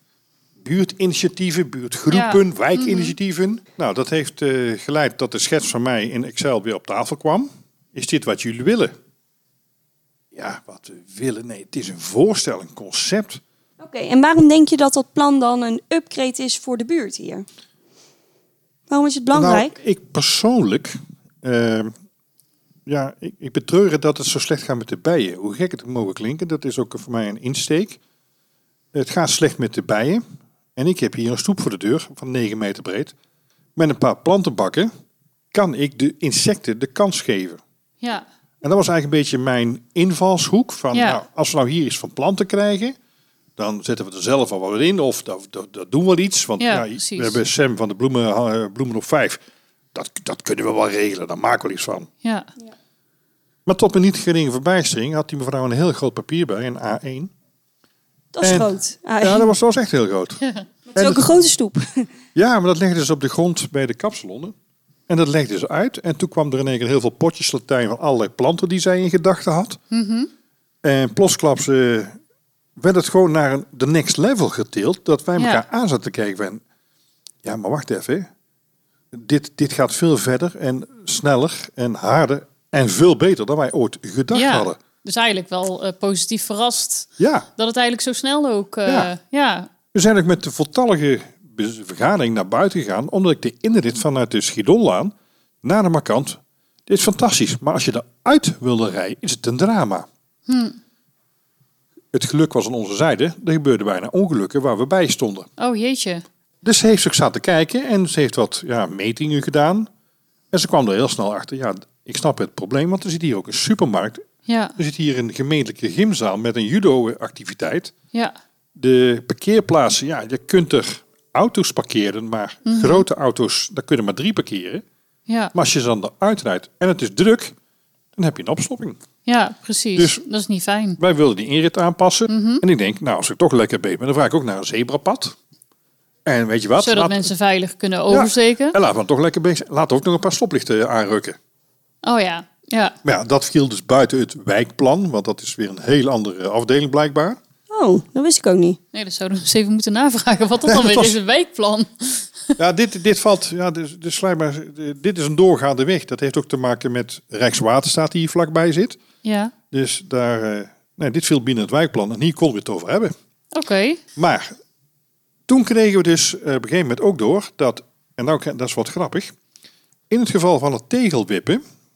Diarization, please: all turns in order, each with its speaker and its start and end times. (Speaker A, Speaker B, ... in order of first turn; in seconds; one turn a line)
Speaker A: 0.6-8.9
Speaker B: 2.1-3.2
Speaker A: 10.3-13.4
Speaker C: 13.8-17.5
Speaker C: 18.9-19.8
Speaker A: 19.3-21.9
Speaker A: 22.9-28.0
Speaker A: 28.9-30.2
Speaker A: 30.8-33.1
Speaker A: 33.8-34.9
Speaker A: 35.5-37.6
Speaker A: 38.6-43.0
Speaker B: 40.9-41.2
Speaker A: 43.6-49.4
Speaker B: 46.6-47.4
Speaker A: 49.9-52.1
Speaker B: 52.2-52.5
Speaker A: 53.7-57.3
Speaker C: 58.3-59.5
Speaker A: 58.4-60.4
Speaker C: 60.9-62.1
Speaker A: 61.0-61.2
Speaker A: 62.3-64.5
Speaker A: 65.1-69.8
Speaker B: 69.9-70.3
Speaker A: 70.8-72.2
Speaker A: 72.8-76.6
Speaker B: 75.3-75.6
Speaker A: 77.4-78.3
Speaker A: 79.1-84.8
Speaker B: 84.3-89.7
Speaker A: 87.2-87.5
Speaker A: 88.8-89.1
Speaker A: 89.9-100.1
Speaker B: 100.5-100.8
Speaker A: 102.1-105.5
Speaker B: 105.6-106.2
Speaker A: 106.6-109.9
Speaker A: 110.5-114.3
Speaker B: 114.5-114.8
Speaker A: 114.8-117.9
Speaker A: 118.8-124.8
Speaker B: 122.7-123.1
Speaker B: 125.3-125.5
Speaker A: 125.5-127.5
Speaker A: 128.2-129.0
Speaker B: 129.3-131.0
Speaker A: 130.0-130.2
Speaker A: 131.0-135.3
Speaker B: 132.3-132.6
Speaker A: 136.3-137.3
Speaker B: 136.8-138.8
Speaker A: 138.1-141.4
Speaker B: 142.0-143.0
Speaker A: 143.0-147.4
Speaker C: 147.7-148.8
Speaker B: 148.9-152.4
Speaker A: 150.7-151.2
Speaker A: 152.6-159.0
Speaker B: 159.2-159.5
Speaker A: 159.7-163.1
Speaker B: 163.5-164.0
Speaker A: 164.2-164.5
Speaker A: 165.5-169.3
Speaker A: 170.1-171.6